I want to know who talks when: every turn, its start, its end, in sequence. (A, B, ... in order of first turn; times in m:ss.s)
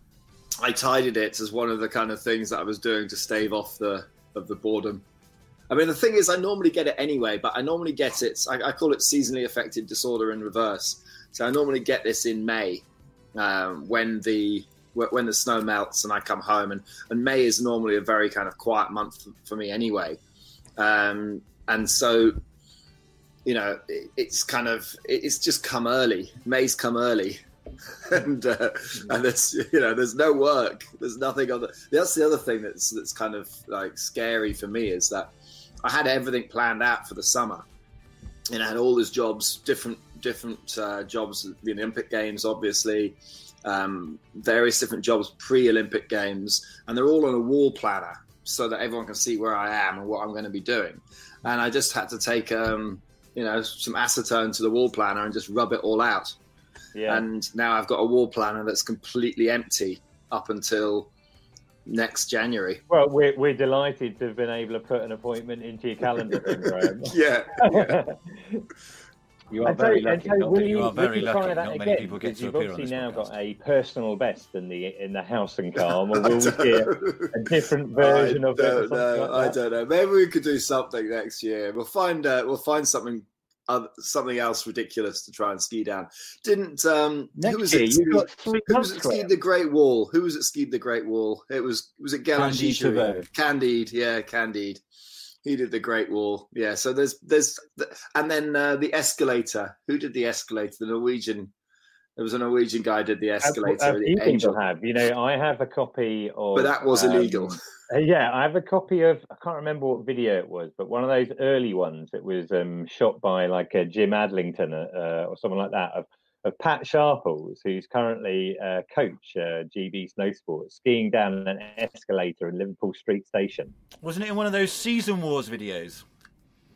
0:00.6-0:05.0 A
0:05.7-0:20.2 A
0:20.8-0:22.4 A
0:23.4-0:27.4 A
0:28.0-0:35.3 A
0:35.8-0:37.6 A
0:38.5-0:56.4 A
0:56.9-0:57.2 B
0:57.1-1:01.1 A
1:01.8-1:02.8 A
1:02.9-1:08.6 B
1:06.3-1:08.0 A
1:09.5-1:13.3 C
1:09.6-1:19.6 B
1:16.1-1:17.3 A
1:18.0-1:34.8 A
1:27.4-1:29.3 C
1:32.4-1:33.2 C
1:35.4-1:41.5 A
1:42.2-1:44.6 A
1:43.4-2:03.7 B
1:46.5-1:47.6 A
2:04.0-2:06.0 C